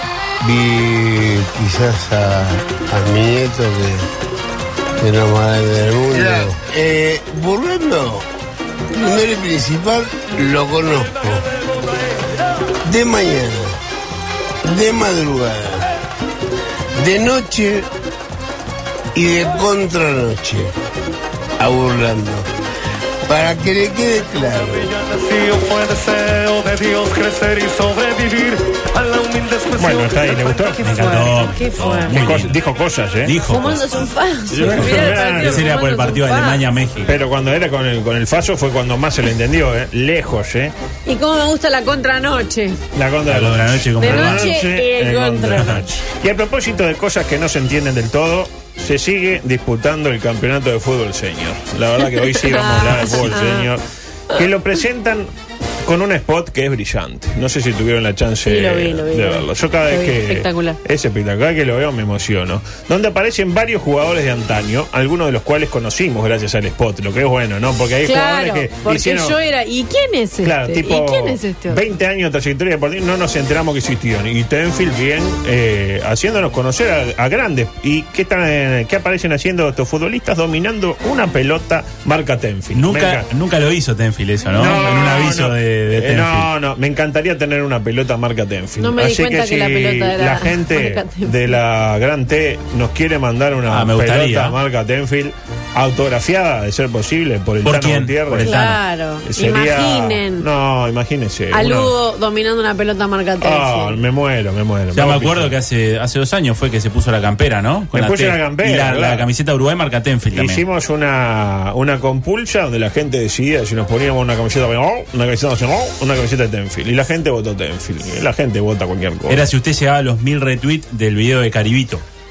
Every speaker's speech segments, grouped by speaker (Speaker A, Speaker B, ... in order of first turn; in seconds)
Speaker A: 0.4-4.1, 5.0-8.3, 8.9-11.5, 12.8-13.8, 14.6-15.9, 16.9-17.9, 19.1-20.8, 21.6-22.5, 23.2-24.9
Speaker B: 24.8-30.6
Speaker C: 29.8-30.8, 32.1-33.3, 34.5-35.6, 37.0-40.7, 42.9-55.3, 55.8-69.3, 70.4-83.2, 84.5-98.5, 99.2-101.9, 103.4-105.5, 107.9-109.2, 110.3-119.4
Speaker D: 30.0-32.1, 33.4-36.6, 41.0-42.8, 44.0-45.9, 52.4-53.7, 58.4-60.8, 68.0-71.8, 88.8-91.3, 98.4-100.5, 101.5-104.0
Speaker E: 30.8-32.6, 33.2-33.8, 34.5-37.2, 43.3-44.5, 82.7-86.5, 93.7-94.6, 97.6-98.8, 104.9-110.6, 119.3-122.0